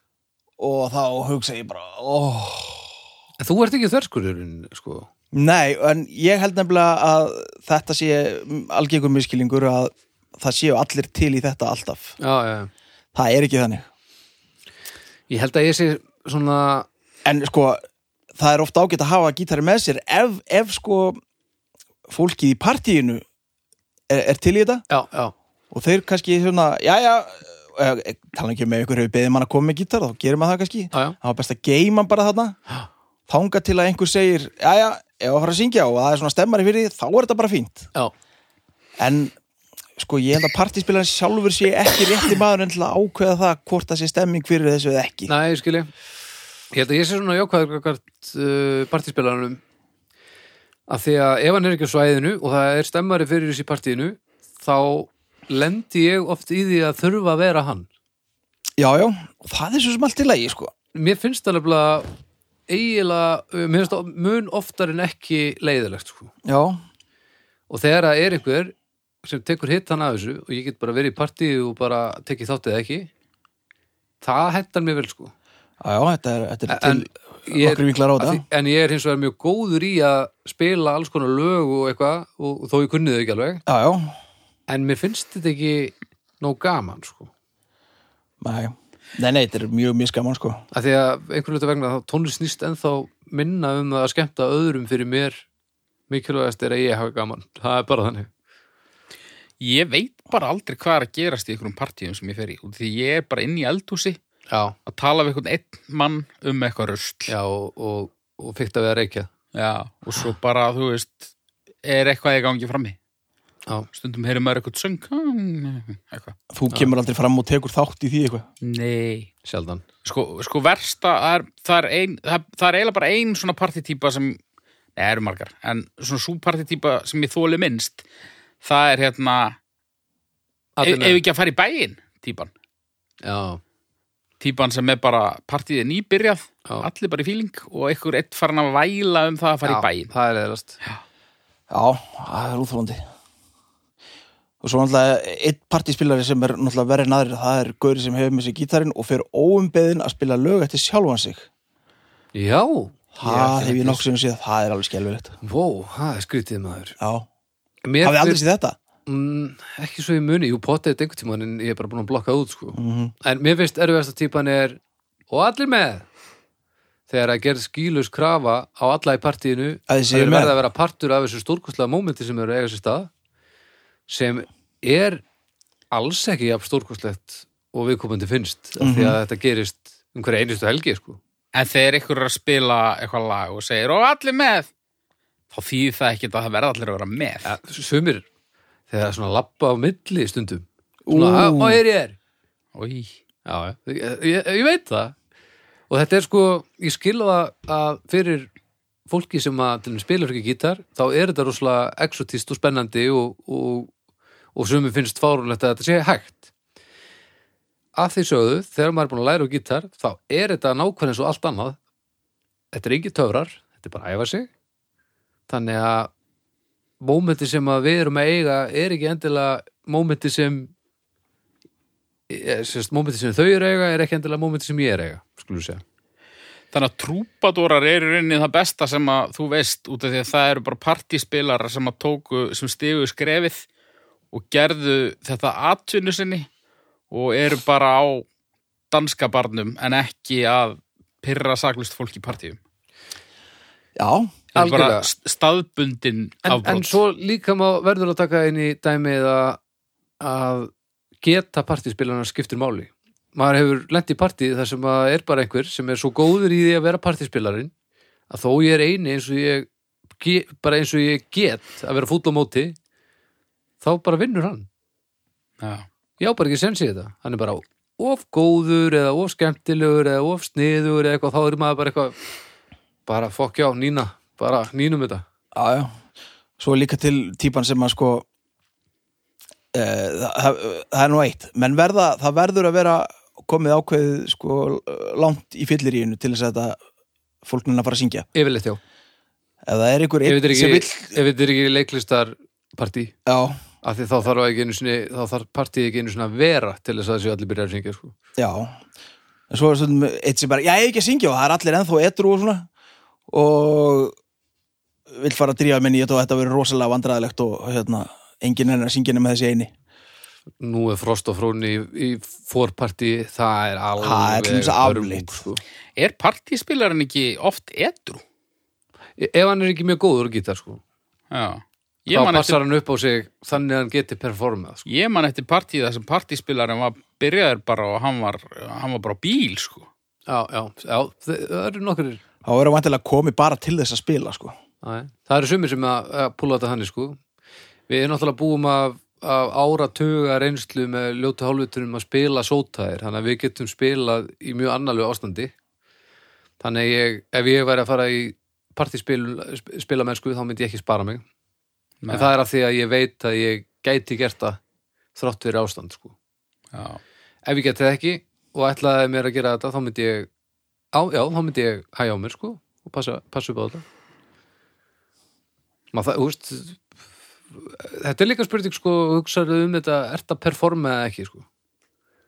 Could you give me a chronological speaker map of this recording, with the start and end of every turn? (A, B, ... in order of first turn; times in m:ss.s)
0:00.6-0:02.9 A
0:03.4-0:05.1 B
0:05.3-0:12.2 A
0:12.2-0:12.7 B
0:13.1-0:13.9 A
0:15.3-0:16.9 B
0:17.2-0:17.8 A
0:18.4-0:21.2 A
0:22.1-0:23.2 A
0:24.1-0:24.8 A
0:24.9-0:25.3 B
0:25.7-0:32.6 A
0:33.3-0:37.9 A
0:39.0-0:39.3 A
0:40.0-0:45.3 A
0:45.3-0:45.9 B
0:46.7-0:49.6 B
0:50.9-0:57.9 B
0:58.8-1:00.7 A
1:00.9-1:02.1 B
1:02.7-1:06.3 B
1:06.4-1:06.8 A
1:07.7-1:13.1 B
1:14.2-1:15.3 B
1:15.8-1:18.4 A
1:16.7-1:23.6 B
1:23.7-1:24.1 A
1:24.7-1:27.3 B
1:28.4-1:30.6 A
1:30.7-1:35.4 B
1:36.1-1:38.3 B
1:39.6-1:44.2 C
1:44.5-1:44.8 B
1:44.8-1:47.3 C
1:47.3-1:49.3 B
1:49.5-1:51.3 C
1:51.8-1:53.0 C
1:53.9-1:56.4 C
1:56.5-1:58.5 A
1:58.6-1:59.3 C
1:59.4-1:59.8 B
2:00.0-2:04.4 C
2:05.0-2:08.0 C
2:08.6-2:09.6 C
2:10.8-2:11.2 B
2:10.8-2:12.5 C
2:13.2-2:13.6 B
2:14.4-2:20.1 C
2:19.6-2:20.8 B
2:21.7-2:23.0 A
2:24.6-2:31.5 A
2:32.3-2:34.0 B
2:33.2-2:35.4 A
2:35.4-2:37.0 B
2:37.0-2:37.3 A
2:37.8-2:38.4 B
2:38.0-2:38.8 A
2:39.0-2:46.1 B
2:42.7-2:43.1 A
2:47.1-2:53.1 B
2:49.9-2:50.6 A
2:54.1-2:55.2 B
2:55.9-3:01.2 B
2:58.8-2:59.2 A
3:01.5-3:04.7 C
3:05.5-3:07.5 C
3:07.4-3:08.2 B
3:08.9-3:12.2 B
3:11.0-3:11.8 A
3:12.7-3:13.1 C
3:13.4-3:15.1 B
3:15.9-3:18.5 B
3:19.1-3:23.9 B
3:24.5-3:26.5 B
3:28.0-3:31.8 B
3:32.7-3:34.5 B
3:35.5-3:36.1 B
3:37.0-3:40.7 B
3:42.3-3:45.8 B
3:46.7-3:53.6 C
3:54.3-3:56.5 C
3:57.1-3:58.2 C
3:58.9-4:02.6 C
4:04.0-4:04.3 A
4:04.5-4:07.0 C
4:04.5-4:05.1 B
4:06.4-4:09.6 B
4:10.2-4:17.7 B
4:18.3-4:22.8 B
4:23.8-4:24.7 B
4:25.6-4:25.9 C
4:26.2-4:32.2 B
4:33.1-4:35.2 B
4:35.5-4:35.9 A
4:36.6-4:38.2 A
4:39.7-4:46.8 A
4:47.4-4:48.3 A
4:48.3-4:48.8 B
4:49.6-4:51.2 A
4:50.2-4:53.1 B
4:53.2-4:53.6 A
4:53.8-4:58.1 B
4:58.4-4:58.8 A
4:59.5-5:02.7 A
5:03.3-5:04.1 A
5:05.1-5:09.7 A
5:10.6-5:15.6 B
5:14.0-5:15.4 A
5:16.0-5:18.2 C
5:19.2-5:20.8 B
5:21.3-5:22.6 C
5:22.1-5:24.9 B
5:24.8-5:29.9 C
5:30.3-5:32.2 B
5:32.4-5:34.5 A
5:34.8-5:37.2 B
5:37.9-5:45.5 B
5:46.6-5:51.2 B
5:52.0-5:52.3 C
5:52.1-5:54.6 B
5:55.1-5:56.1 B
5:56.7-5:57.0 C
5:57.4-6:00.3 B
6:00.9-6:03.8 B
6:05.9-6:06.8 B
6:07.5-6:11.4 B